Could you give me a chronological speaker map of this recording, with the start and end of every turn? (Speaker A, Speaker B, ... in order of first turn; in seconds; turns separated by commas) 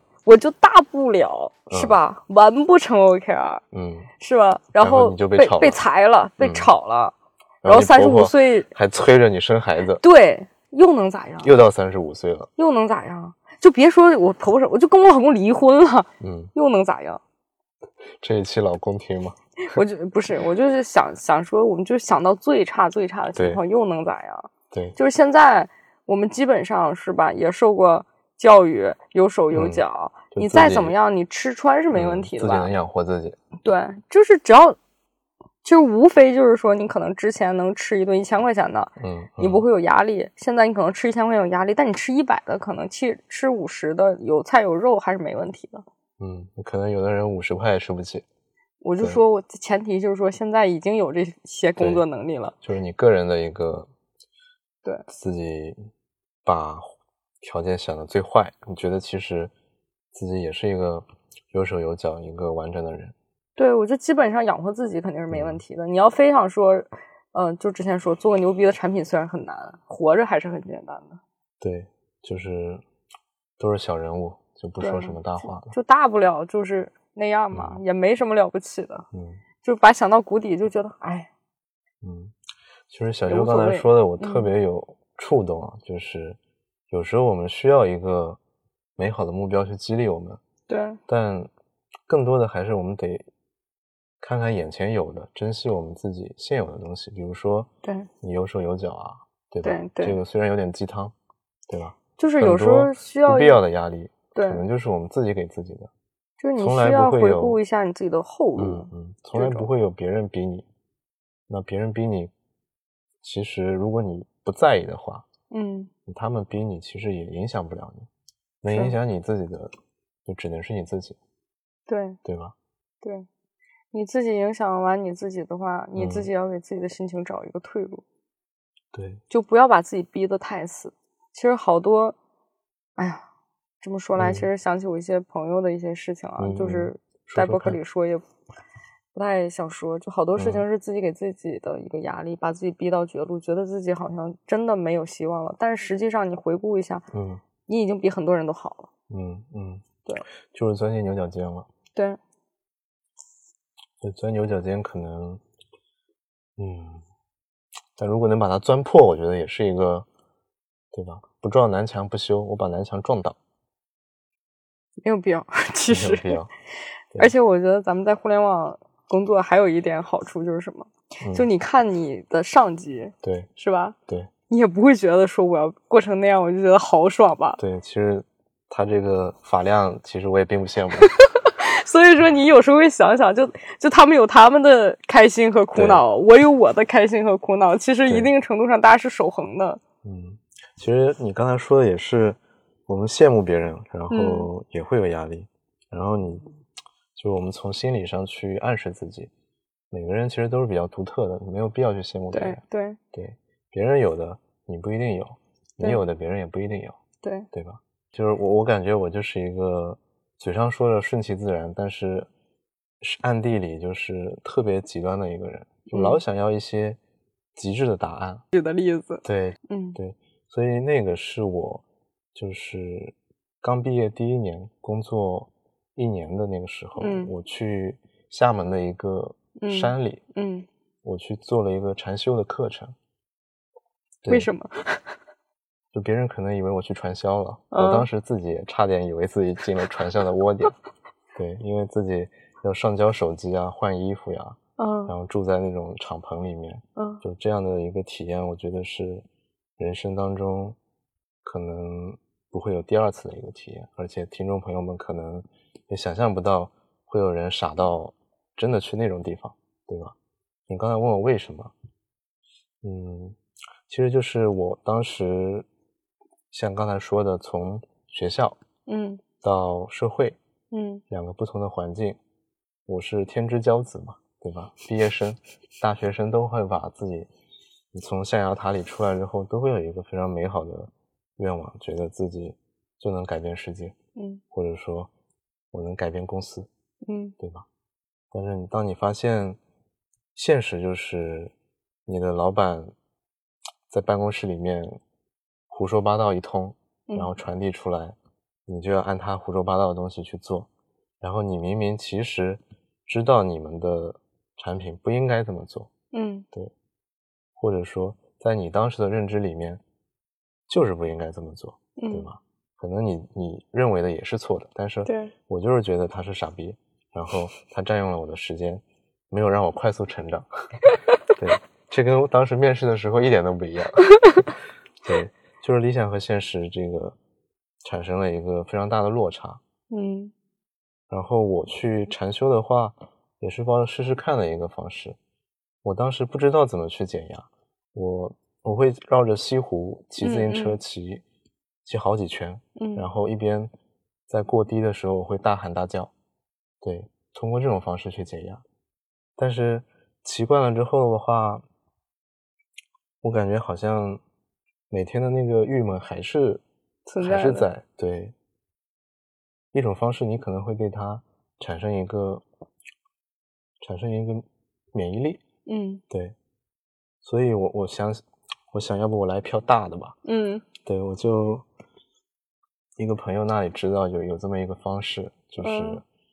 Speaker A: 0.3-3.6, Speaker B: 1.7-2.0, Speaker B: 3.7-4.1, Speaker A: 4.2-7.2, Speaker B: 4.8-5.8, Speaker B: 6.4-6.7, Speaker B: 7.6-10.0, Speaker A: 7.7-8.7, Speaker A: 10.0-11.5, Speaker B: 11.4-12.5, Speaker A: 12.6-17.2, Speaker B: 16.2-16.5, Speaker B: 18.2-19.8, Speaker A: 19.7-32.8, Speaker B: 23.4-23.6, Speaker B: 24.7-25.0, Speaker B: 29.5-29.8, Speaker B: 30.3-30.9, Speaker B: 31.9-33.4, Speaker A: 33.6-34.8, Speaker A: 35.6-45.9, Speaker B: 39.0-39.6, Speaker B: 46.2-48.3, Speaker A: 48.8-52.6, Speaker B: 51.8-52.0, Speaker B: 52.6-53.9, Speaker B: 55.1-55.8, Speaker B: 56.5-59.5, Speaker B: 60.1-63.1, Speaker A: 63.6-71.2, Speaker B: 65.3-65.6, Speaker B: 71.6-72.8, Speaker B: 73.6-75.7, Speaker A: 74.8-79.1, Speaker B: 77.5-77.8, Speaker B: 79.1-79.4, Speaker A: 79.6-81.3, Speaker B: 82.0-82.3, Speaker B: 82.9-86.4, Speaker A: 83.3-84.5, Speaker B: 86.9-88.4, Speaker B: 89.0-90.4, Speaker A: 90.7-91.0, Speaker B: 91.1-91.5, Speaker B: 92.1-93.3, Speaker B: 94.2-97.7, Speaker A: 97.8-98.1, Speaker B: 98.2-101.2, Speaker A: 99.6-100.2, Speaker B: 101.7-105.9, Speaker A: 102.2-103.6, Speaker A: 104.3-104.6, Speaker A: 106.4-109.7, Speaker B: 106.6-107.6, Speaker B: 108.6-110.7, Speaker B: 111.5-112.3, Speaker B: 113.2-115.3, Speaker A: 115.5-115.9, Speaker B: 116.1-118.1, Speaker B: 118.6-119.7, Speaker A: 118.7-119.0, Speaker B: 120.3-121.2, Speaker A: 121.9-122.2, Speaker B: 122.2-122.5, Speaker A: 123.9-128.0, Speaker B: 126.0-126.3, Speaker B: 128.9-129.2, Speaker A: 129.3-132.2, Speaker A: 133.0-133.2, Speaker A: 133.8-138.3, Speaker B: 134.2-134.5, Speaker B: 136.4-137.8, Speaker A: 139.1-147.1, Speaker B: 140.4-140.7, Speaker B: 147.1-147.4, Speaker A: 147.7-148.9, Speaker B: 149.1-149.8, Speaker B: 150.5-151.7, Speaker A: 151.9-152.2, Speaker B: 154.0-155.4, Speaker B: 156.6-157.0, Speaker B: 158.0-160.1, Speaker B: 160.9-163.4, Speaker A: 165.0-166.4, Speaker B: 165.9-166.5, Speaker A: 167.2-174.0, Speaker B: 171.2-171.5, Speaker B: 173.2-173.5, Speaker A: 174.5-177.6, Speaker B: 177.6-181.1, Speaker A: 181.0-189.8, Speaker B: 185.7-186.0, Speaker B: 190.0-196.5, Speaker A: 194.1-194.5, Speaker B: 197.2-199.3, Speaker B: 199.9-202.6, Speaker A: 202.3-203.0, Speaker B: 203.1-207.0, Speaker A: 207.2-207.5, Speaker B: 207.5-212.3, Speaker B: 213.0-217.0, Speaker A: 215.9-216.2, Speaker B: 217.6-218.4, Speaker A: 218.5-220.0, Speaker B: 219.2-221.8, Speaker B: 222.3-230.2, Speaker A: 227.0-227.3, Speaker A: 229.6-230.7, Speaker B: 231.0-233.0, Speaker B: 234.2-234.5, Speaker A: 234.3-235.0, Speaker B: 235.9-240.8, Speaker A: 237.7-238.1, Speaker B: 241.3-249.2, Speaker A: 244.8-245.1, Speaker A: 247.0-247.2, Speaker B: 249.8-250.8, Speaker B: 251.4-260.1, Speaker B: 260.7-261.7, Speaker B: 262.8-263.4, Speaker B: 263.9-265.7, Speaker B: 266.5-268.6, Speaker A: 268.9-269.2, Speaker B: 269.4-270.4, Speaker A: 270.7-271.0, Speaker B: 271.1-272.2, Speaker B: 272.9-277.3, Speaker B: 277.9-283.9, Speaker A: 284.2-284.4, Speaker B: 284.5-285.1, Speaker B: 285.7-286.7, Speaker A: 287.1-287.4, Speaker B: 287.4-287.7, Speaker B: 288.3-289.6, Speaker B: 290.4-291.5, Speaker B: 292.1-292.9, Speaker B: 293.9-295.0, Speaker B: 295.7-300.7, Speaker B: 301.2-305.9, Speaker A: 306.1-306.5, Speaker B: 307.6-309.8, Speaker B: 310.7-320.5, Speaker A: 312.0-312.3, Speaker A: 315.1-315.3, Speaker B: 321.4-324.5, Speaker B: 325.0-327.2, Speaker B: 327.8-329.6, Speaker A: 329.9-330.3, Speaker B: 331.1-335.2, Speaker B: 335.8-341.2, Speaker A: 340.2-340.8, Speaker B: 341.9-343.7, Speaker A: 342.8-343.1, Speaker B: 344.3-346.1, Speaker B: 346.8-348.6, Speaker B: 349.4-351.6, Speaker B: 353.2-354.2, Speaker B: 354.9-356.6, Speaker A: 357.1-357.7, Speaker B: 357.2-358.4, Speaker B: 359.7-362.4, Speaker B: 363.8-365.4, Speaker A: 365.7-366.0, Speaker B: 367.2-370.2, Speaker A: 370.2-370.6, Speaker B: 370.8-371.6, Speaker B: 373.0-376.0, Speaker A: 375.6-376.0